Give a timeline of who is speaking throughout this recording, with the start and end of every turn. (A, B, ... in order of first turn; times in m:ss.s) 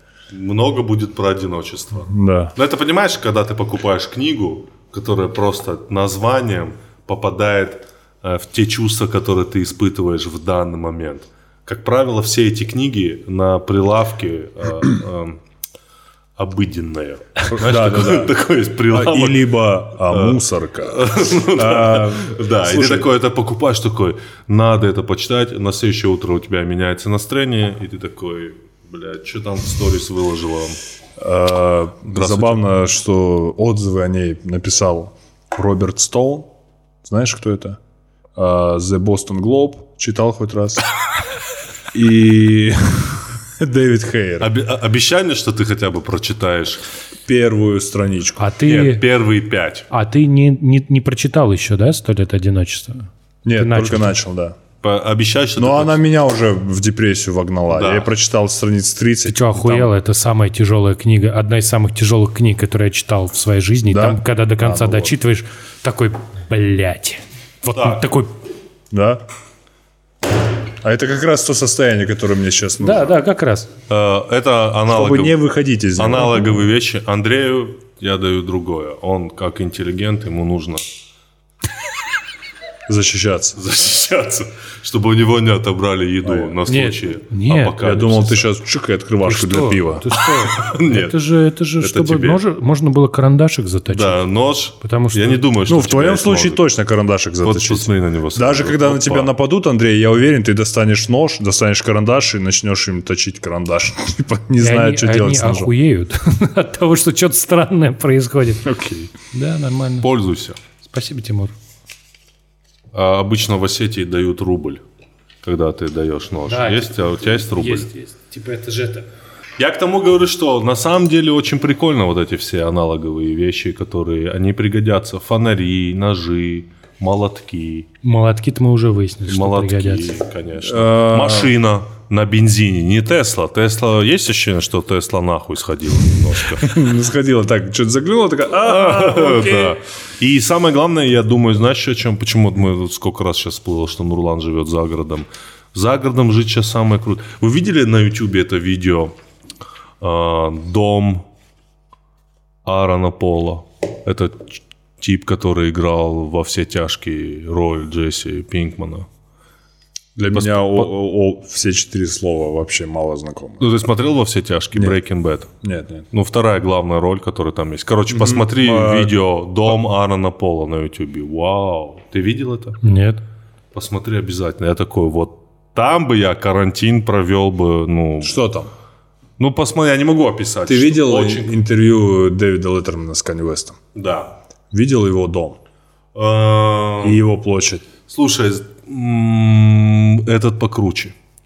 0:00.3-0:15.4 A
0:02.0-0:02.5 B
0:16.4-0:30.8 A
0:17.5-0:18.3 B
0:18.9-0:23.1 B
0:31.2-0:36.5 B
0:32.1-0:32.6 A
0:37.0-0:37.8 B
0:38.4-0:40.8 B
0:41.9-0:44.5 B
0:44.4-0:46.8 A
0:47.3-0:48.4 B
0:48.4-0:49.0 C
0:48.7-0:49.9 A
0:49.9-0:54.2 C
0:53.4-0:54.6 B
0:54.8-0:56.0 A
0:55.6-0:59.9 B
0:57.7-0:58.1 A
0:59.3-1:08.4 C
1:03.9-1:05.1 B
1:07.7-1:08.0 A
1:08.9-1:09.2 B
1:10.8-1:13.2 B
1:12.8-1:13.7 C
1:13.9-1:15.4 A
1:14.9-1:16.6 B
1:16.0-1:20.9 A
1:22.9-1:23.6 B
1:23.6-1:28.5 A
1:26.2-1:26.6 B
1:26.6-1:27.8 C
1:27.8-1:30.0 B
1:29.2-1:34.2 C
1:30.5-1:31.2 A
1:31.8-1:32.4 A
1:33.9-1:36.6 A
1:34.8-1:35.4 C
1:35.7-1:45.7 B
1:37.4-1:39.3 A
1:44.6-1:48.7 C
1:48.6-1:49.1 B
1:49.3-1:50.1 C
1:50.0-1:50.6 A
1:50.8-1:51.5 C
1:52.9-1:54.8 A
1:55.4-1:57.9 A
1:56.5-1:59.1 C
1:59.6-2:07.9 A
2:08.0-2:10.1 C
2:09.3-2:16.7 A
2:10.6-2:11.5 B
2:16.5-2:19.8 B
2:18.6-2:29.1 A
2:30.0-2:31.2 A
2:32.6-2:39.1 A
2:40.2-2:43.7 B
2:40.3-2:40.9 A
2:43.6-2:45.5 A
2:44.7-2:45.0 B
2:45.6-2:46.0 B
2:46.1-2:52.8 A
2:48.1-2:49.1 B
2:52.8-2:53.2 C
2:53.7-2:58.4 A
2:58.2-2:58.7 B
2:59.4-3:01.5 A
3:00.6-3:03.8 B
3:03.9-3:04.4 A
3:04.7-3:05.6 B
3:06.1-3:07.2 A
3:07.0-3:07.9 B
3:08.1-3:11.1 A